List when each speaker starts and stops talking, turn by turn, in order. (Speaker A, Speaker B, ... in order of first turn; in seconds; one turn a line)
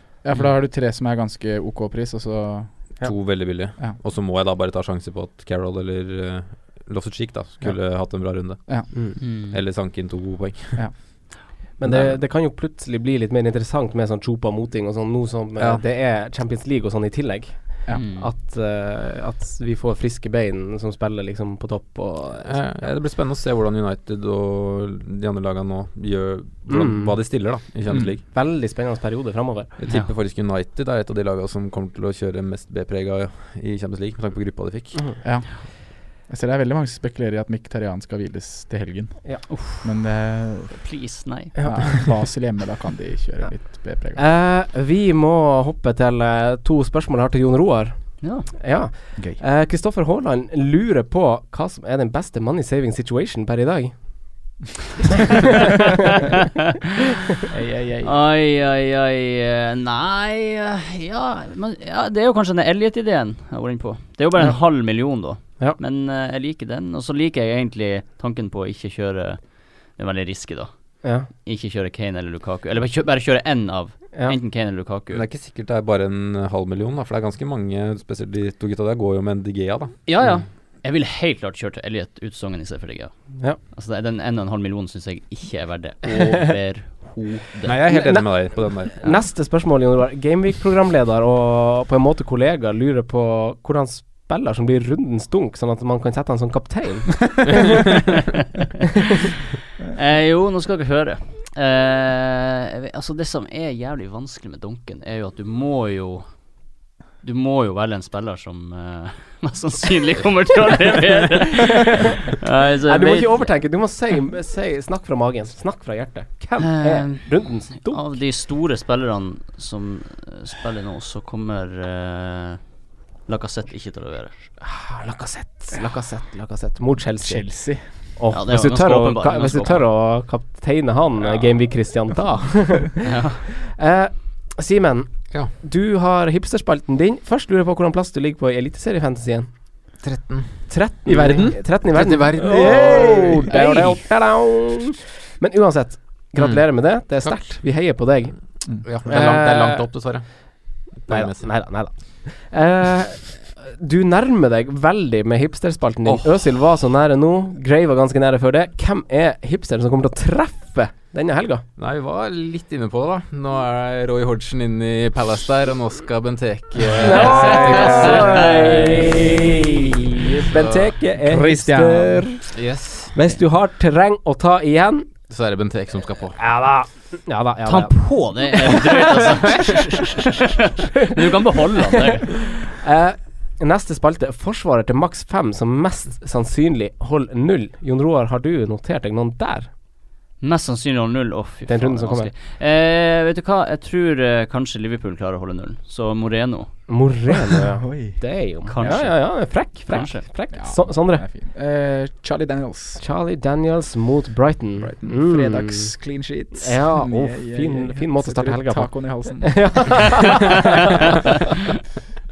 Speaker A: 0.2-3.0
Speaker B: 3.0-10.9
Speaker C: 9.2-9.6
Speaker A: 10.8-11.4
Speaker D: 11.8-22.9
Speaker B: 11.8-12.2
Speaker B: 15.6-15.8
Speaker C: 17.9-18.3
Speaker B: 22.4-28.2
Speaker D: 26.7-27.1
Speaker D: 28.2-29.7
Speaker B: 29.8-35.1
Speaker A: 35.2-40.8
Speaker C: 39.5-39.9
Speaker C: 40.7-42.0
Speaker D: 41.6-42.0
Speaker A: 41.6-44.2
Speaker D: 44.2-54.5
Speaker C: 48.2-48.5
Speaker A: 57.5-58.1
Speaker C: 58.0-75.2
Speaker D: 71.0-71.3
Speaker B: 75.1-80.3
Speaker C: 80.1-87.8
Speaker B: 87.7-89.0
Speaker D: 87.9-97.5
Speaker C: 99.9-106.6
Speaker C: 107.2-113.6
Speaker D: 111.6-112.0
Speaker D: 112.9-118.2
Speaker C: 116.6-122.6
Speaker C: 123.3-124.4
Speaker D: 124.7-127.5
Speaker A: 127.2-127.8
Speaker D: 128.2-139.5
Speaker C: 128.3-129.8
Speaker C: 133.0-133.4
Speaker B: 140.0-143.7
Speaker D: 140.7-149.9
Speaker C: 143.6-143.9
Speaker B: 146.4-146.6
Speaker B: 148.8-151.5
Speaker D: 151.1-161.7
Speaker B: 156.1-156.4
Speaker B: 161.8-168.6
Speaker D: 167.0-175.1
Speaker C: 167.2-169.2
Speaker B: 170.3-173.2
Speaker B: 175.3-176.4
Speaker D: 176.4-178.0
Speaker C: 177.7-182.5
Speaker D: 182.3-189.7
Speaker C: 190.4-196.9
Speaker D: 191.7-192.3
Speaker D: 196.9-201.2
Speaker A: 197.8-198.2
Speaker C: 198.7-200.2
Speaker A: 200.5-203.0
Speaker D: 203.0-205.9
Speaker A: 204.8-210.2
Speaker D: 206.5-210.8